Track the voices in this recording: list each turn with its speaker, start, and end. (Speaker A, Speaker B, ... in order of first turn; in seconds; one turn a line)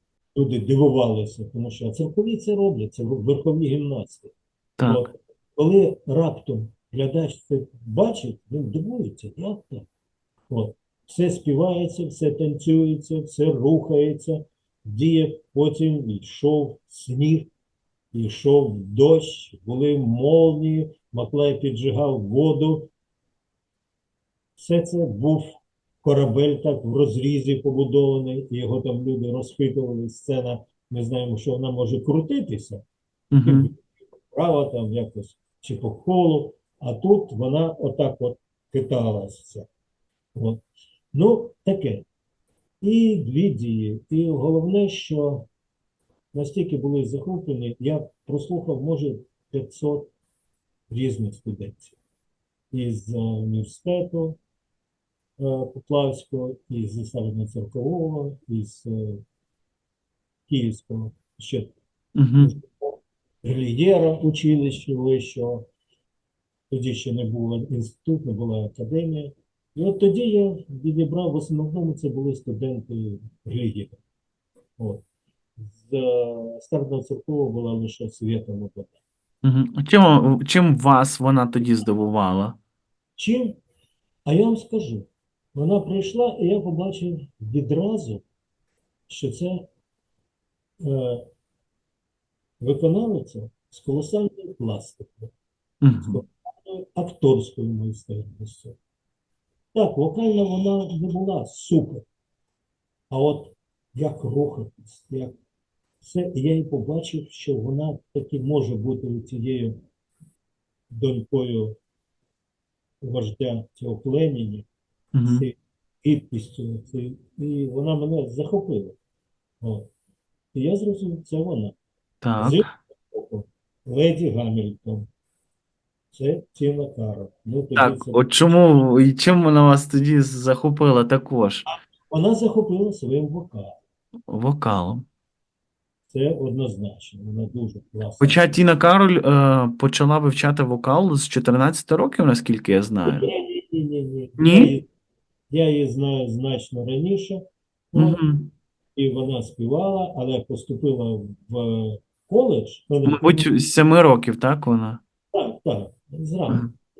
Speaker A: 0.3-4.3
Speaker B: 4.8-5.1
Speaker A: 4.8-9.9
Speaker A: 10.5-17.5
Speaker A: 18.1-22.9
Speaker A: 24.6-25.5
Speaker A: 26.0-32.8
Speaker B: 33.3-33.7
Speaker A: 33.4-39.7
Speaker A: 40.4-40.6
Speaker A: 41.1-42.0
Speaker A: 42.8-45.5
Speaker A: 46.3-50.1
Speaker A: 50.9-52.0
Speaker A: 52.7-54.4
Speaker A: 55.4-59.2
Speaker A: 60.5-61.7
Speaker B: 62.2-62.5
Speaker A: 62.4-65.7
Speaker A: 66.7-74.0
Speaker A: 75.6-78.9
Speaker B: 79.4-82.6
Speaker A: 83.2-83.5
Speaker A: 84.3-88.2
Speaker A: 89.1-89.6
Speaker A: 90.8-91.2
Speaker A: 92.6-95.3
Speaker B: 95.8-96.2
Speaker A: 96.0-98.8
Speaker A: 99.7-102.0
Speaker A: 103.1-105.3
Speaker A: 106.0-109.8
Speaker A: 110.9-111.8
Speaker A: 113.0-114.7
Speaker B: 115.1-115.5
Speaker A: 115.2-119.0
Speaker A: 119.6-119.9
Speaker A: 120.5-121.7
Speaker B: 122.2-122.6
Speaker A: 122.4-125.1
Speaker A: 126.1-128.3
Speaker B: 127.8-131.7
Speaker A: 132.1-133.8
Speaker B: 134.3-135.0
Speaker A: 136.1-138.5
Speaker B: 138.2-143.2
Speaker A: 143.1-144.9
Speaker B: 144.4-144.7
Speaker A: 145.5-148.2
Speaker B: 147.9-148.5
Speaker A: 148.9-153.5
Speaker B: 153.0-155.0
Speaker A: 155.3-156.7